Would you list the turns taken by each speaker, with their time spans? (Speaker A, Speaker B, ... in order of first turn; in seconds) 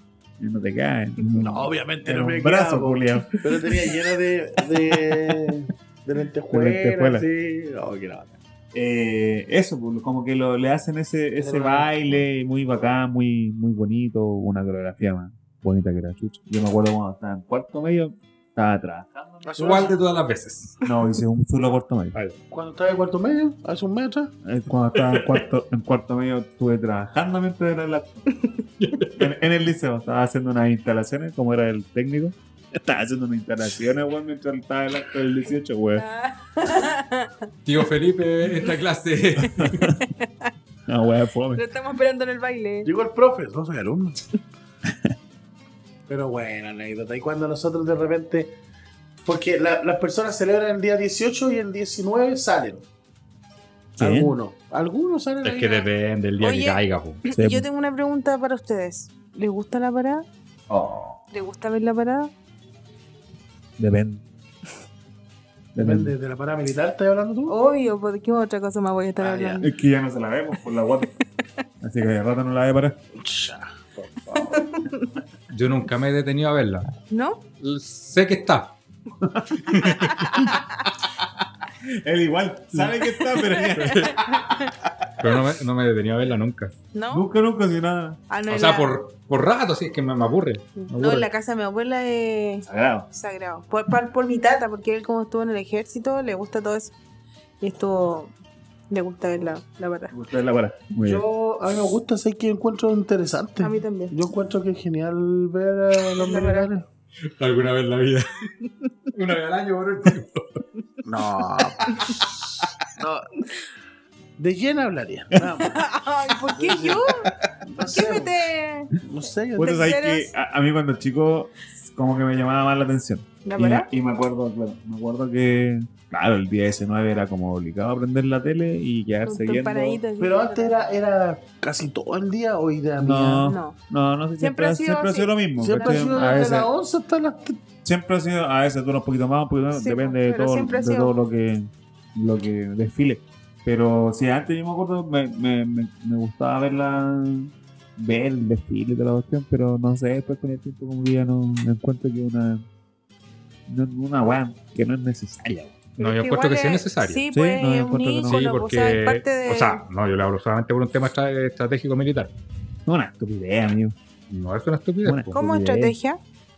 Speaker A: 0.4-3.4, 6.5-7.2, 8.7-19.9, 20.8-22.1, 24.4-28.2, 29.2-36.0, 39.5-39.9, 40.9-41.6, 44.9-45.1, 54.0-54.3, 57.3-57.7, 60.7-61.3, 63.8-64.2, 65.7-66.1, 69.6-71.1, 71.8-73.0, 79.2-79.9, 82.0-85.1, 87.1-88.2, 92.6-93.1, 100.1-101.2, 119.5-130.0, 133.0-136.7, 137.8-152.6, 153.7-155.8, 157.3-158.4, 162.8-163.9, 165.0-165.9
Speaker B: 1.4-8.3, 11.4-12.2, 19.4-19.9, 22.5-24.3, 42.8-44.3, 46.1-48.5, 49.2-52.8, 54.0-55.9, 65.8-67.5, 69.2-69.6, 73.1-74.6, 101.0-106.8, 111.0-112.3, 113.0-113.2, 114.4-115.8, 116.5-118.4, 119.0-119.8, 130.2-133.5, 135.6-137.6
Speaker C: 19.6-20.8, 24.9-25.4, 28.8-29.3, 37.6-39.9, 55.4-57.2, 75.5-76.9, 77.6-78.8, 79.7-80.2, 83.8-84.1, 85.2-86.7, 88.5-91.3, 107.2-108.5, 109.1-110.6, 156.0-157.2, 158.2-162.3, 164.3-165.3
Speaker D: 35.9-37.5, 40.2-40.5, 41.5-42.9, 56.4-60.2, 61.3-62.3, 67.5-69.7, 74.3-75.1, 77.1-77.4, 83.2-84.7, 86.9-87.2, 88.3-88.9, 90.8-96.9, 97.6-98.3, 98.9-100.1, 103.6-104.1, 106.1-106.7, 115.6-117.3, 117.9-119.0, 119.6-120.3, 123.4-123.9, 129.2-130.7, 133.4-133.8, 134.4-136.4, 139.7-141.1, 156.0-159.8, 165.3-166.2